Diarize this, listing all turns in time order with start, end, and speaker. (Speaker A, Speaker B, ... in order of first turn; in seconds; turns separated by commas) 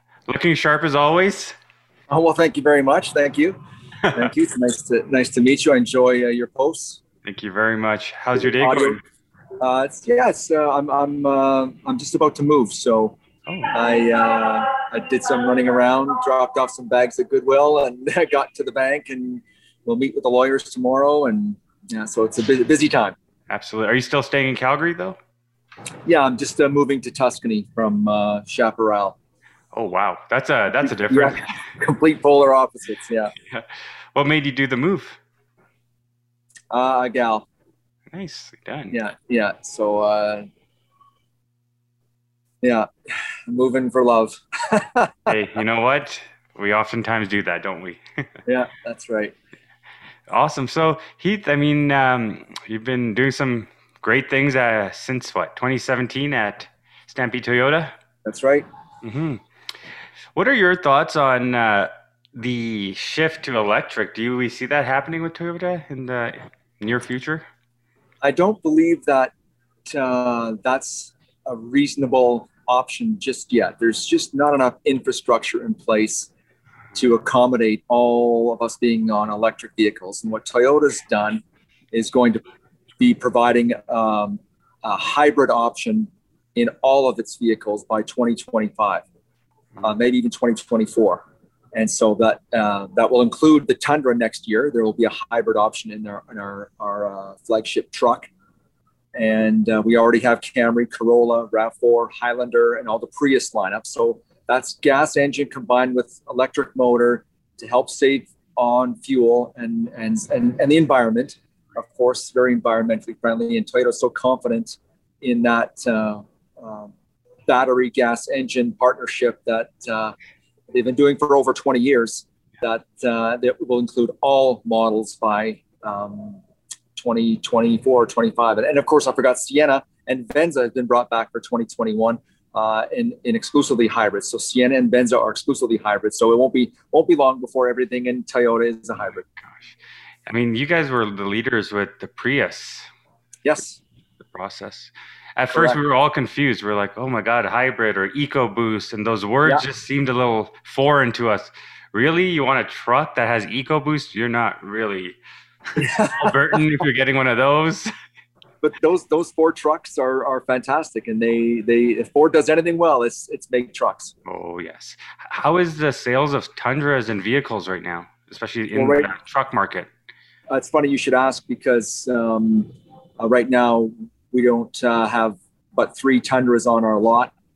Speaker A: 0.3-1.6, Speaker B: 2.1-3.6, Speaker B: 4.1-7.0, Speaker A: 7.2-9.0, Speaker B: 8.6-9.0, Speaker B: 9.6-13.2, Speaker A: 13.5-13.7, Speaker B: 13.7-23.2, Speaker A: 23.5-25.2, Speaker B: 26.1-29.2, Speaker A: 29.7-31.7, Speaker B: 30.8-33.3, Speaker A: 33.4-35.2, Speaker B: 36.7-37.5, Speaker A: 38.1-39.0, Speaker B: 38.9-40.4, Speaker B: 42.6-42.9, Speaker B: 43.5-45.4, Speaker A: 45.3-48.3, Speaker B: 48.5-49.3, Speaker A: 50.3-57.9, Speaker B: 58.2-58.7, Speaker A: 59.0-59.4, Speaker A: 60.4-67.5, Speaker B: 68.2-69.3, Speaker B: 69.9-76.3, Speaker B: 77.0-82.4, Speaker B: 83.0-89.0, Speaker B: 89.8-98.3, Speaker B: 99.1-116.9, Speaker B: 117.5-120.2, Speaker B: 120.7-126.4, Speaker B: 127.0-139.2, Speaker A: 139.4-142.9, Speaker B: 143.4-143.8, Speaker A: 144.2-155.2, Speaker B: 145.5-145.8, Speaker B: 155.8-156.6, Speaker A: 156.1-157.9, Speaker B: 158.6-164.1, Speaker A: 164.3-169.9, Speaker B: 168.7-169.1, Speaker B: 170.5-177.3